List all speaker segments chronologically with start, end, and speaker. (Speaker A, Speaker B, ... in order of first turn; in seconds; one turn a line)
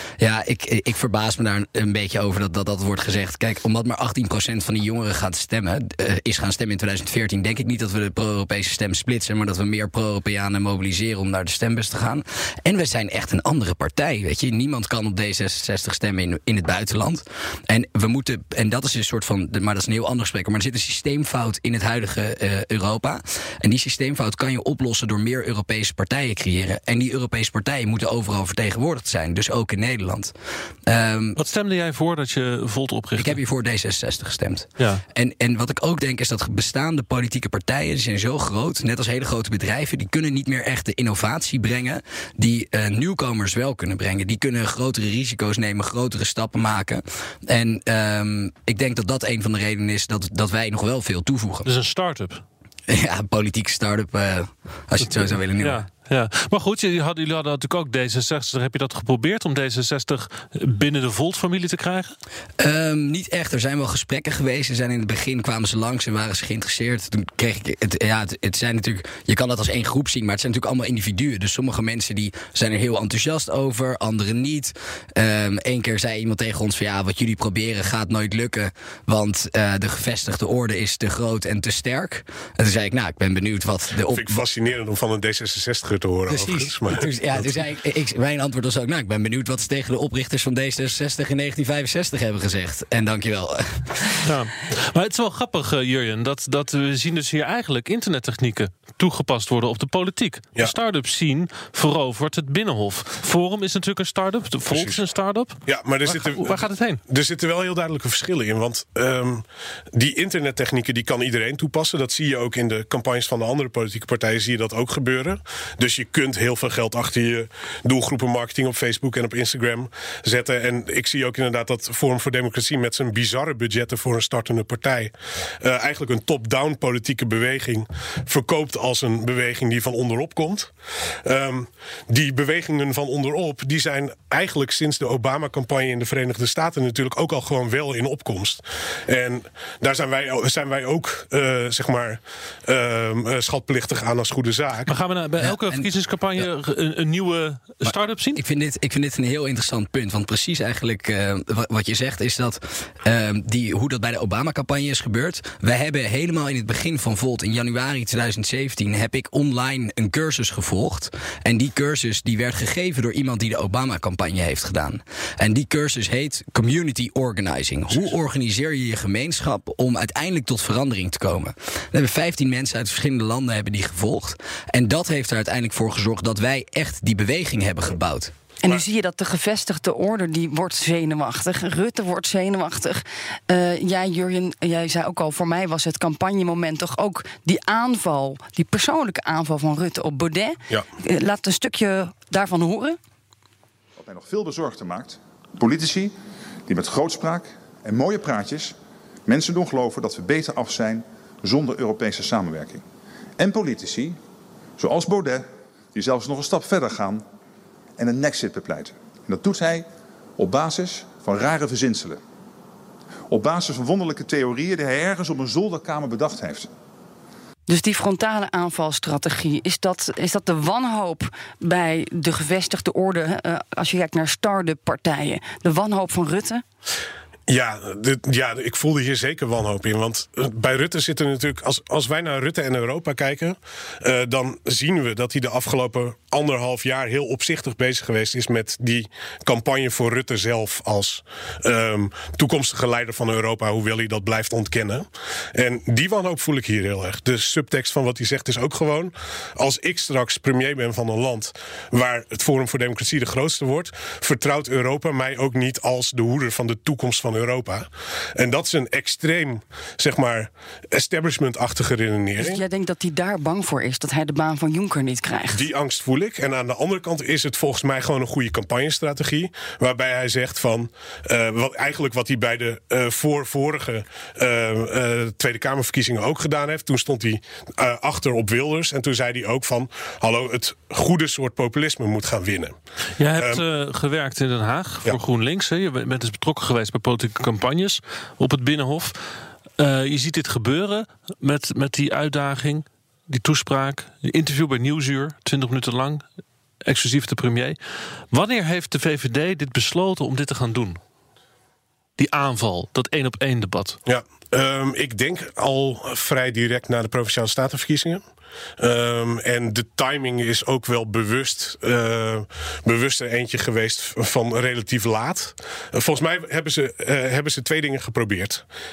Speaker A: 0.2-30.3
Speaker A: 30.9-31.4
Speaker B: 31.4-33.4
Speaker A: 33.2-51.7
Speaker B: 51.6-52.4
Speaker A: 52.9-55.8
Speaker B: 55.0-62.1
Speaker A: 62.6-84.4
Speaker C: 84.1-87.5
Speaker A: 86.3-94.1
Speaker B: 94.2-107.0
Speaker C: 104.7-105.0
Speaker C: 105.7-130.7
Speaker C: 131.2-144.9
Speaker B: 144.9-148.4
Speaker A: 145.4-145.9
Speaker A: 147.8-178.3
Speaker D: 178.6-193.0
Speaker E: 194.0-196.1
Speaker E: 196.7-202.8
Speaker E: 203.4-204.2
Speaker E: 204.8-207.2
Speaker E: 208.0-209.8
Speaker E: 210.4-212.2
Speaker E: 213.3-216.7
Speaker D: 217.7-226.6
Speaker C: 227.5-262.6
Speaker D: 262.4-265.6
Speaker C: 265.5-282.8
Speaker B: 283.2-289.1
Speaker C: 283.4-283.6
Speaker B: 289.8-296.2
Speaker B: 296.8-297.8
Speaker B: 298.3-301.0
Speaker B: 302.2-304.0
Speaker C: 304.1-308.2
Speaker C: 308.8-318.6